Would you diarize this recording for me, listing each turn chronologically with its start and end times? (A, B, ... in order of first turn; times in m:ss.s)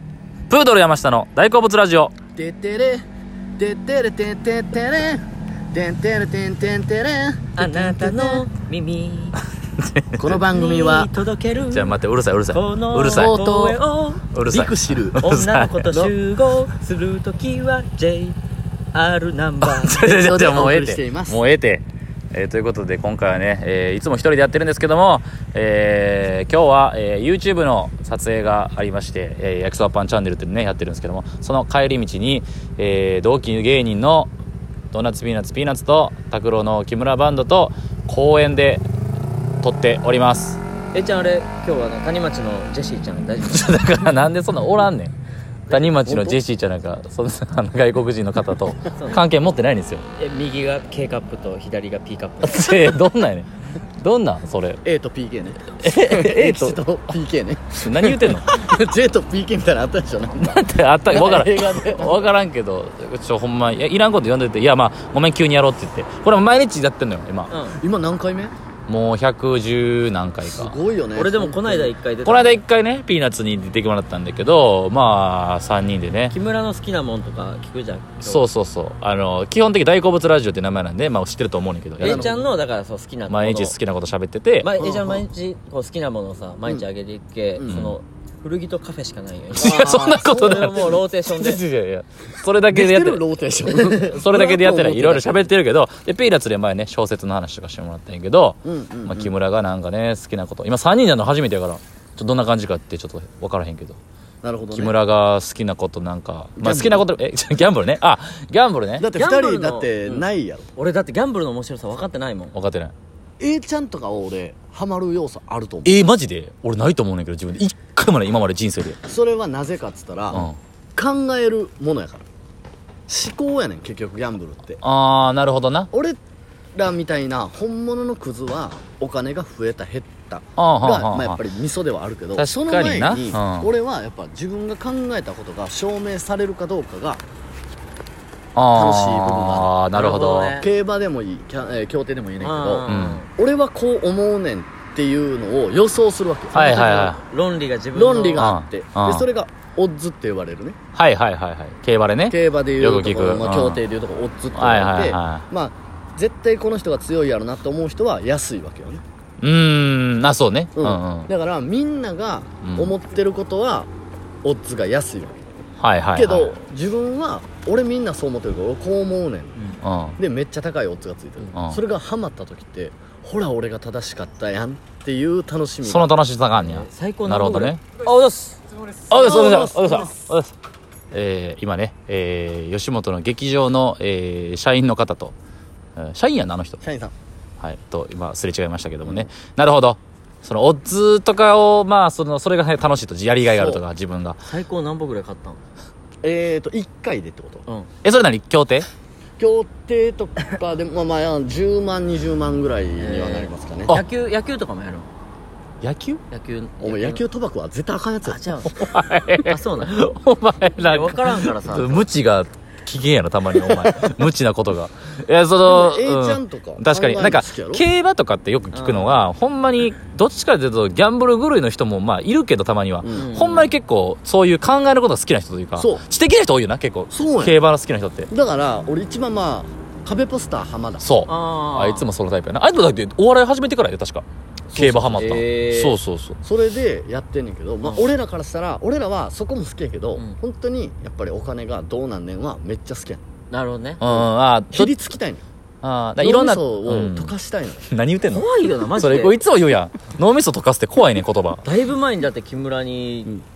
0:00.5-0:02.1 A
0:02.3-0:03.0 B
0:03.6-0:08.4 B
0:07.6-0:09.4 C
0:09.8-0:10.4 A
0:10.2-0:11.1 B
0:10.4-0:12.0 C
0:11.7-0:13.4 A
0:12.5-0:14.3 C
0:13.1-0:13.8 B
0:14.3-0:15.8 A
0:14.5-0:15.2 B
0:15.2-0:18.4 C
0:18.9-0:20.4 C
0:19.6-0:34.3 A
0:20.0-0:21.4 B
0:34.9-0:38.8 A
0:39.6-0:40.6 A
0:40.9-0:44.0 C
0:43.4-0:45.1 A
0:45.7-0:46.4 B
0:45.7-0:50.0 A
0:49.0-0:49.2 C
0:50.2-0:53.0 C
0:52.4-0:54.8 A
0:54.8-1:02.4 B
0:55.8-0:56.8 A
0:57.8-0:58.5 A
1:00.4-1:07.5 A
1:07.5-1:07.8 C
1:07.8-1:08.5 B
1:08.9-1:10.8 A
1:10.4-1:11.9 B
1:11.2-1:12.6 C
1:12.2-1:16.4 A
1:16.3-1:18.5 C
1:18.2-1:22.3 A
1:22.0-1:23.8 C
1:22.0-1:22.5 B
1:23.3-1:24.7 A
1:24.6-1:31.6 C
1:24.8-1:25.2 B
1:27.7-1:28.0 A
1:29.5-1:31.0 B
1:29.5-1:44.0 A
1:32.7-1:35.5 B
1:38.6-1:39.3 B
1:44.4-1:44.9 B
1:44.7-1:49.1 A
1:46.6-1:47.1 B
1:49.0-1:50.7 B
1:49.2-1:50.2 C
1:50.8-1:52.5 C
1:52.5-1:52.9 A
1:53.4-1:56.0 B
1:55.8-1:59.0 A
1:59.1-2:02.2 B
2:00.3-2:00.6 A
2:03.1-2:04.8 B
2:04.8-2:05.9 A
2:05.9-2:06.2 B
2:06.7-2:17.2 B
2:10.6-2:11.4 A
2:12.4-2:13.7 A
2:18.5-2:20.5 A
2:18.7-2:19.8 B
2:19.9-2:20.7 C
2:20.6-2:27.1 B
2:22.4-2:23.3 C
2:22.9-2:23.2 A
2:26.5-2:27.2 A
2:26.9-2:28.5 C
2:27.9-2:30.8 B
2:28.4-2:29.2 A
2:30.9-2:33.8 A
2:32.3-2:39.0 B
2:34.5-2:35.4 A
2:39.4-2:41.3 A
2:40.8-2:43.9 B
2:42.6-2:42.9 A
2:44.4-2:45.4 B
2:45.8-2:46.5 A
2:46.1-2:49.6 B
2:49.8-2:50.2 A
2:50.2-2:56.1 B
2:51.5-2:51.8 A
2:55.8-2:57.8 A
2:56.5-3:00.1 C
2:59.1-3:00.5 A
3:01.1-3:05.3 A
3:06.0-3:06.8 A
3:06.8-3:07.1 B
3:07.6-3:14.4 A
3:09.0-3:09.3 B
3:13.5-3:13.8 B
3:14.4-3:15.6 C
3:16.2-3:17.6 B
3:18.0-3:18.9 A
3:19.4-3:23.9 B
3:23.0-3:25.1 C
3:25.8-3:26.2 A
3:26.3-3:27.2 C
3:26.8-3:28.4 B
3:28.2-3:30.1 C
3:28.7-3:48.3 A
3:30.8-3:32.0 C
3:35.6-3:37.8 B
3:38.7-3:39.3 C
3:43.0-3:43.3 B
3:43.1-3:43.7 C
3:45.8-3:46.0 B
3:47.1-3:47.6 B
3:48.3-3:51.0 B
3:51.0-3:56.4 A
3:51.3-3:52.1 C
3:54.7-3:55.4 B
3:55.2-3:56.0 C
3:56.4-4:03.2 B
4:03.5-4:04.0 C
4:04.0-4:04.9 A
4:04.1-4:05.4 B
4:05.8-4:07.3 A
4:06.2-4:07.8 B
4:07.9-4:11.6 A
4:08.2-4:09.4 C
4:11.6-4:13.3 C